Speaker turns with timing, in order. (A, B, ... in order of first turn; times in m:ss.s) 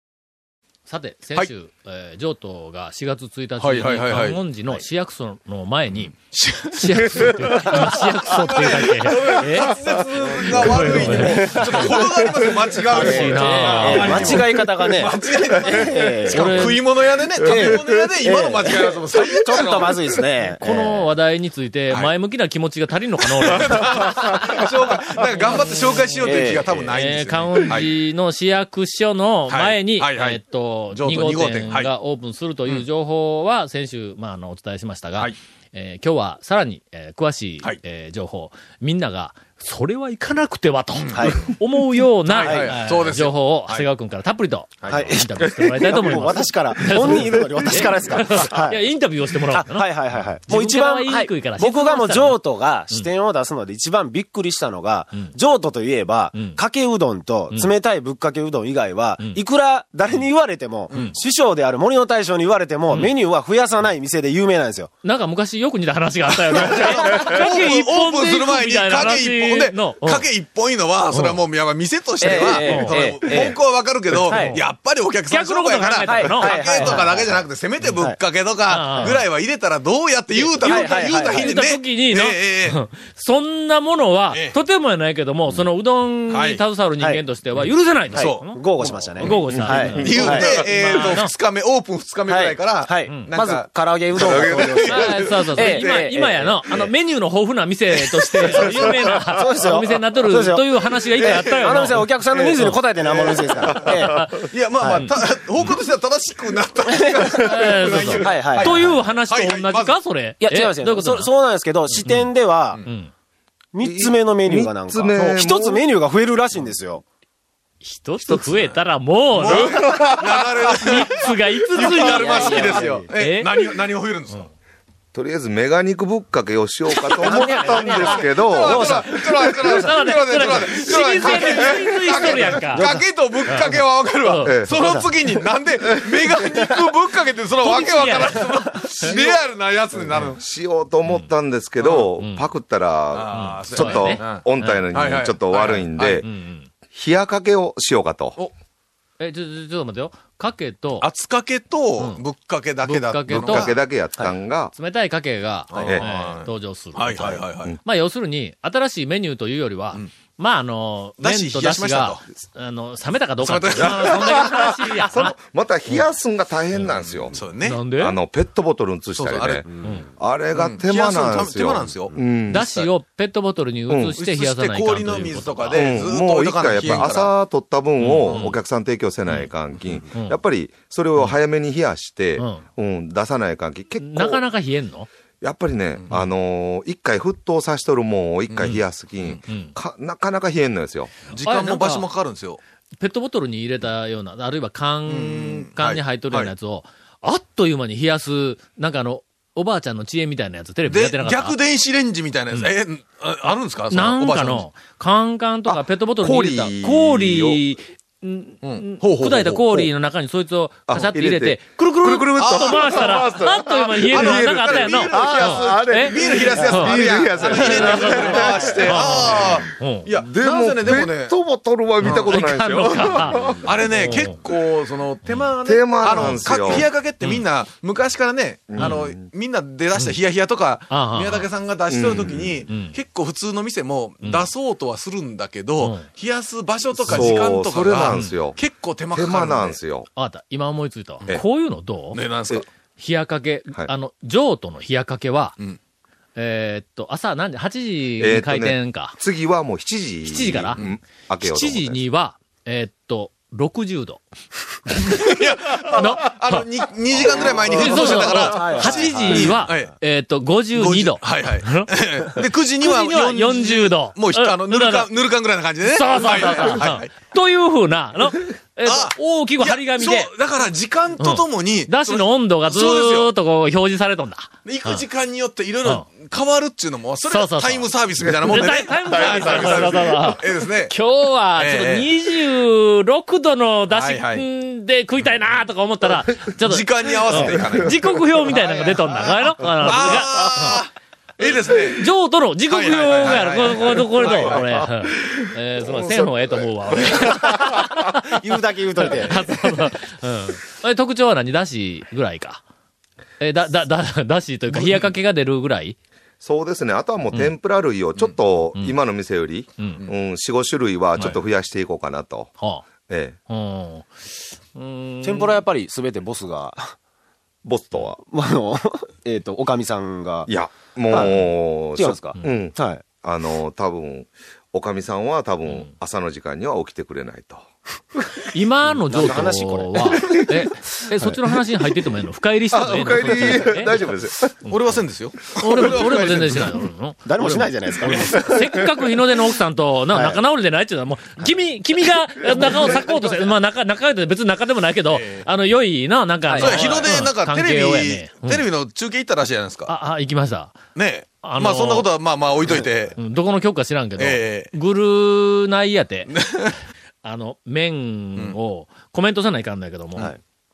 0:00.8-0:06.2 A
0:03.6-0:04.4 B
0:06.3-0:20.0 B
0:06.7-0:09.8 A
0:10.3-0:12.2 C
0:10.5-0:12.0 A
0:12.8-0:16.8 C
0:12.9-0:14.6 A
0:16.2-0:16.8 A
0:17.4-0:21.1 C
0:17.5-0:18.0 D
0:20.6-0:24.6 A
0:23.4-0:27.9 B
0:25.4-0:25.6 A
0:26.2-0:27.0 C
0:26.9-0:53.1 A
0:29.5-0:30.4 B
0:30.9-0:31.9 B
0:41.0-0:41.4 B
0:41.1-0:41.5 C
0:42.3-0:43.8 B
0:42.4-0:42.8 C
0:44.8-0:45.2 B
0:44.9-0:48.8 C
0:49.5-1:04.9 C
0:56.3-0:56.6 A
1:00.9-1:01.2 B
1:05.0-1:10.3 A
1:06.6-1:22.8 B
1:11.1-1:11.4 A
1:12.2-1:13.6 C
1:12.2-1:13.5 A
1:14.2-1:14.5 C
1:14.3-1:14.7 A
1:15.3-1:17.1 A
1:16.0-1:18.2 C
1:18.7-1:19.2 A
1:20.4-1:21.5 C
1:20.6-1:31.3 A
1:24.3-1:24.6 B
1:26.3-1:26.6 B
1:28.1-1:30.7 C
1:28.1-1:28.4 B
1:29.2-1:36.2 B
1:30.0-1:30.6 D
1:32.3-1:36.8 C
1:33.1-1:33.4 A
1:34.1-1:35.0 D
1:34.8-1:42.8 A
1:38.4-1:45.1 C
1:38.5-1:38.8 B
1:41.6-1:41.9 B
1:43.1-1:44.0 B
1:43.5-1:45.2 A
1:44.5-1:50.0 B
1:47.3-1:51.3 A
1:47.9-1:48.9 C
1:50.4-1:52.8 C
1:51.9-1:52.3 A
1:52.8-1:53.1 A
1:53.7-1:57.0 C
1:53.8-1:55.8 D
1:57.8-2:00.2 A
1:58.2-1:58.5 D
1:59.3-2:04.5 B
1:59.6-2:00.4 D
2:00.7-2:03.5 A
2:01.8-2:03.1 C
2:05.1-2:09.2 D
2:07.2-2:10.6 C
2:07.2-2:08.2 A
2:07.4-2:20.4 B
2:08.8-2:12.9 A
2:12.2-2:13.0 C
2:13.5-2:14.6 A
2:14.4-2:14.8 D
2:14.7-2:15.1 C
2:17.6-2:19.2 A
2:19.0-2:19.4 D
2:20.0-2:26.3 D
2:21.8-2:22.1 B
2:22.2-2:22.5 A
2:23.1-2:26.2 B
2:23.3-2:24.8 A
2:26.2-2:26.7 A
2:26.9-2:28.4 D
2:29.2-2:31.1 A
2:31.0-2:33.8 B
2:32.8-2:33.7 A
2:33.3-2:34.7 D
2:34.7-2:45.3 A
2:35.7-2:37.8 B
2:41.2-2:42.2 B
2:43.4-2:44.4 B
2:43.8-2:47.4 D
2:46.8-2:47.8 B
2:47.6-2:48.2 A
2:48.0-2:52.7 D
2:49.2-2:49.7 B
2:50.5-2:52.9 B
2:52.5-2:56.0 A
2:53.9-2:54.2 D
2:54.2-2:57.3 B
2:55.0-3:04.4 D
2:56.8-2:57.1 A
2:58.0-2:58.6 A
2:58.2-2:58.5 B
3:02.4-3:02.6 A
3:04.0-3:05.1 A
3:05.4-3:11.1 D
3:08.5-3:09.4 B
3:09.5-3:09.7 A
3:11.3-3:12.6 B
3:11.4-3:12.1 A
3:13.0-3:21.6 A
3:15.0-3:16.5 B
3:20.8-3:24.6 B
3:23.9-3:40.1 A
3:25.6-3:27.6 D
3:28.6-3:29.8 B
3:30.9-3:39.6 D
3:32.4-3:33.4 B
3:34.1-3:41.4 B
3:40.2-3:43.9 D
3:42.0-3:59.8 B
3:42.1-3:44.3 A
3:45.6-3:46.9 D
3:46.0-3:46.5 A
3:48.7-3:49.2 D
3:48.8-3:49.1 A
3:50.9-3:51.5 A
3:51.9-3:52.6 D
3:52.7-3:53.0 A
3:54.2-3:54.5 A
3:55.8-3:56.1 A
3:57.0-3:58.6 D
3:58.1-3:58.4 A
3:59.1-4:00.1 D
4:00.2-4:02.2 A
4:02.1-4:02.6 B
4:03.0-4:05.6 A
4:06.4-4:09.2 A
4:08.2-4:12.0 D
4:10.2-4:10.8 A
4:11.4-4:14.2 A
4:14.9-4:15.2 A
4:14.9-4:19.9 B
4:15.9-4:16.6 A
4:17.2-4:19.7 C
4:17.3-4:25.1 A
4:20.7-4:27.1 B
4:25.8-4:30.3 A
4:28.8-4:33.3 B
4:31.2-4:35.0 A
4:34.6-4:40.9 B
4:37.3-4:50.8 A
4:39.2-4:40.0 D
4:41.6-4:42.1 B
4:43.9-4:44.4 B
4:46.6-4:48.1 B
4:47.4-4:48.2 D
4:48.4-4:48.9 C
4:49.8-4:52.0 B
4:51.9-4:58.4 A
4:52.7-4:54.7 B
4:54.2-4:58.0 D
4:58.3-4:59.7 C
4:59.0-5:02.6 A
5:03.4-5:06.0 A
5:04.7-5:05.1 B
5:06.4-5:12.5 D
5:07.3-5:07.6 A
5:09.8-5:10.0 A
5:12.6-5:12.8 A
5:13.1-5:13.4 D
5:13.5-5:14.2 A
5:14.7-5:15.6 A
5:15.2-5:16.9 C
5:17.6-5:18.2 D
5:18.2-5:20.5 C
5:20.5-5:27.6 D
5:21.1-5:23.0 C
5:28.5-5:34.0 A
5:28.9-5:30.4 C
5:32.7-5:34.5 D
5:34.6-5:36.8 B
5:35.5-5:48.7 A
5:37.2-5:38.7 C
5:38.0-5:38.4 B
5:40.1-5:40.4 C
5:45.1-5:45.4 B
5:46.4-5:47.2 C
5:46.6-5:49.9 B
5:49.9-5:50.8 A
5:50.9-5:53.2 B
5:51.4-5:52.1 A
5:53.2-5:56.3 A
5:54.2-5:54.7 B
5:56.3-5:56.7 B
5:57.2-6:00.3 A